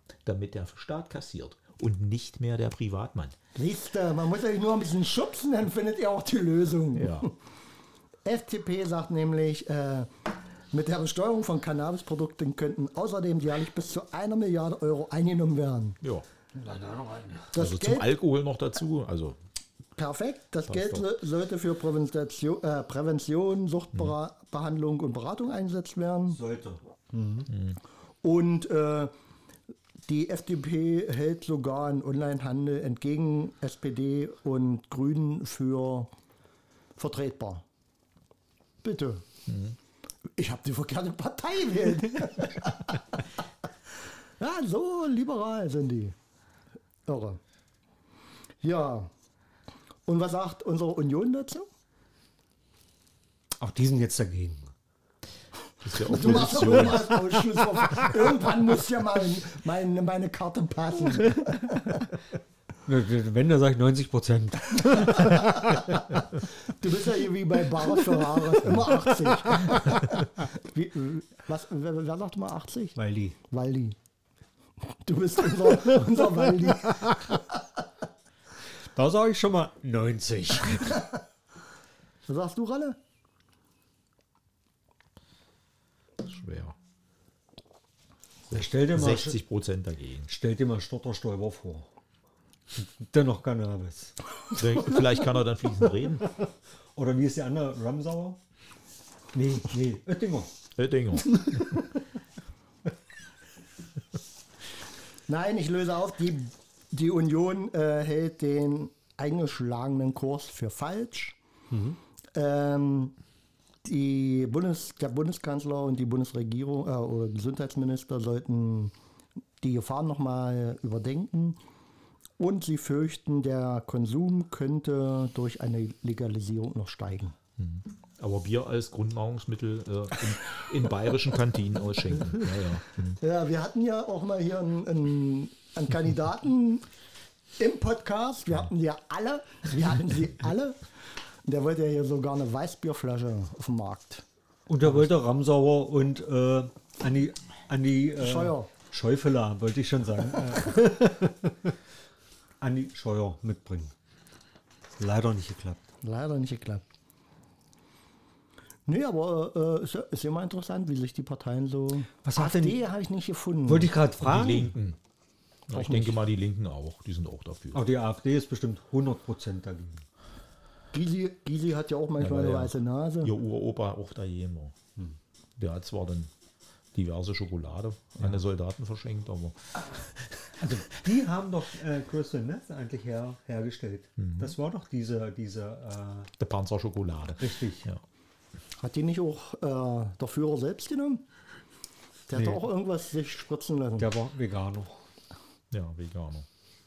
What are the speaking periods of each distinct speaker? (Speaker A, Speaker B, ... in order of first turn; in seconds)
Speaker A: 0.2-3.4, 7.0-7.3, 17.6-19.4, 20.7-21.1, 27.5-27.8, 39.5-39.8, 55.8-57.4, 86.2-86.8, 88.5-90.3, 94.5-96.3, 100.8-101.8, 127.6-133.2, 164.2-165.0, 165.7-167.8, 172.2-174.8, 175.6-176.3, 176.9-180.6, 184.2-184.6, 186.4-188.0, 195.7-196.5
Speaker B: 3.5-7.3, 8.2-10.1, 10.7-16.0, 17.5-18.1, 20.0-26.4, 28.2-29.1, 30.1-36.1, 37.0-37.6, 38.8-39.2, 40.4-43.2, 44.4-46.1, 47.1-47.4, 48.6-49.1, 50.1-51.7, 55.9-62.1, 66.4-73.0, 73.5-74.0, 74.8-77.6, 82.3-83.0, 105.3-111.4, 112.3-113.2, 113.8-118.9, 119.6-121.6, 122.4-127.4, 133.2-136.8, 137.6-140.9, 141.4-144.2, 148.2-148.7, 156.0-156.8, 158.9-163.9, 165.7-166.2, 170.9-173.3, 188.8-191.2, 192.3-194.1
Speaker C: 16.5-17.6, 26.3-27.5, 53.6-54.7, 62.9-66.2, 68.0-70.1, 73.0-73.4, 75.6-76.1, 76.8-77.2, 78.9-81.1, 88.5-89.4, 90.3-91.9, 92.7-94.2, 97.0-98.4, 99.3-100.5, 111.7-112.0, 144.7-151.7, 152.6-153.9, 155.0-155.8, 162.2-162.8, 163.7-164.8, 167.7-170.0, 180.6-186.3, 187.4-187.9, 192.3-192.6, 194.0-195.0